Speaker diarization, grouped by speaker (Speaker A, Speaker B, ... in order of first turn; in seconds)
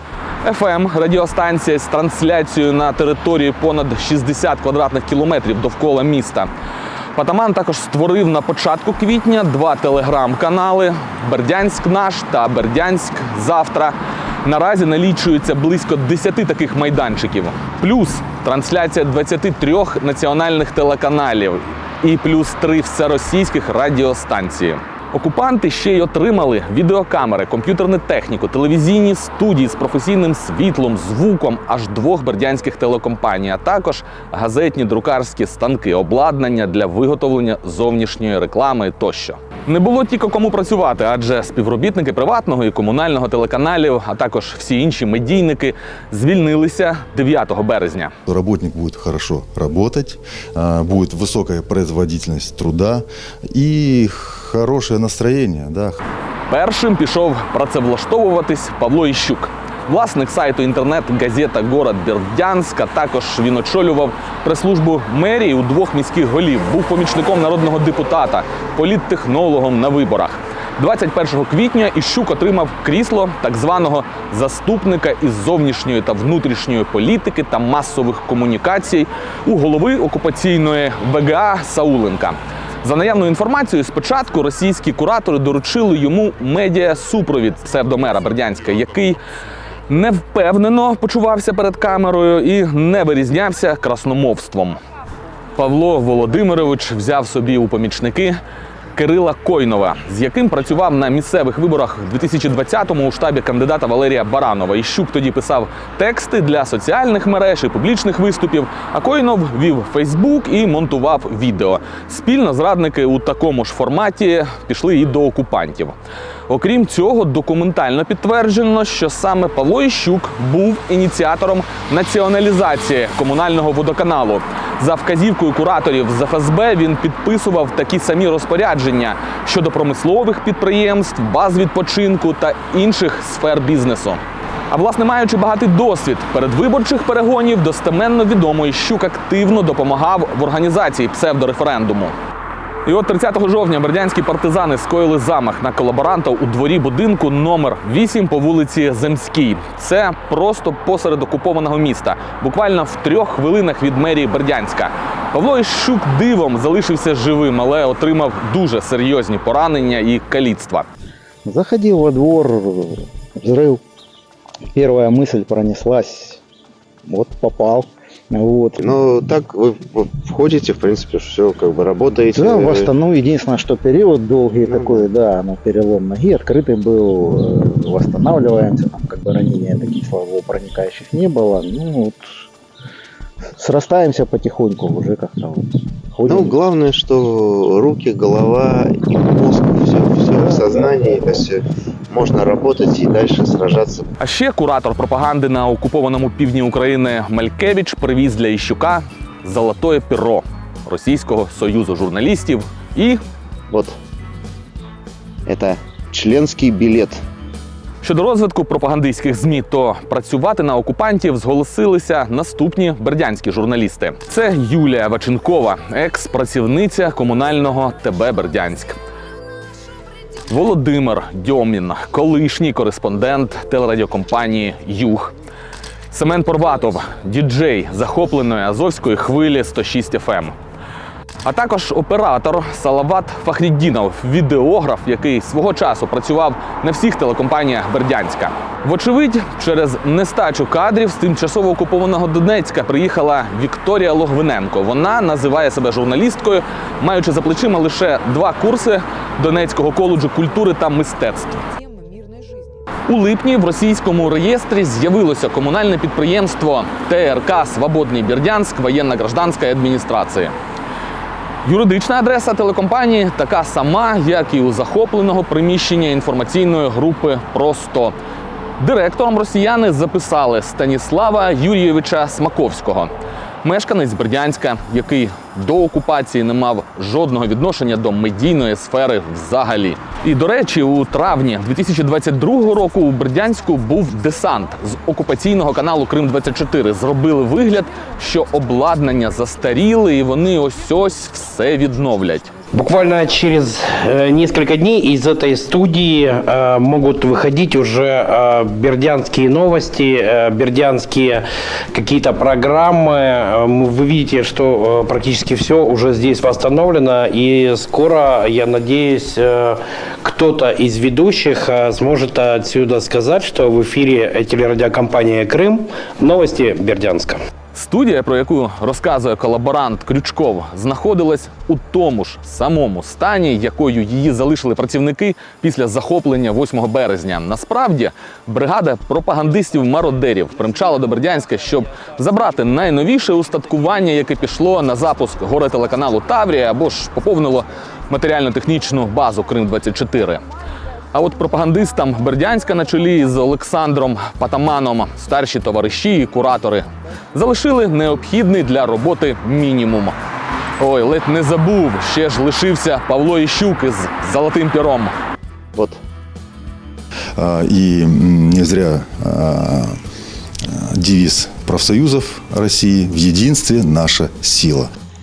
Speaker A: 0.4-6.5, 7.2-48.1, 56.5-89.2, 89.9-94.8, 95.6-98.4, 98.9-115.9, 116.5-142.1, 142.8-160.9, 194.2-203.2, 208.0-219.0, 220.5-225.3, 226.1-230.5, 231.4-251.6, 253.1-260.5, 261.6-268.1, 268.8-273.1, 273.6-292.5, 317.7-340.4, 341.1-350.1, 350.8-355.1
Speaker B: 48.3-56.0, 357.4-360.0, 360.6-364.9
Speaker C: 161.4-163.8, 164.7-166.4, 167.1-168.8, 172.3-182.2, 183.6-186.5
Speaker D: 168.8-172.9, 174.7-175.0, 186.3-194.1, 205.4-207.2
Speaker E: 292.7-317.4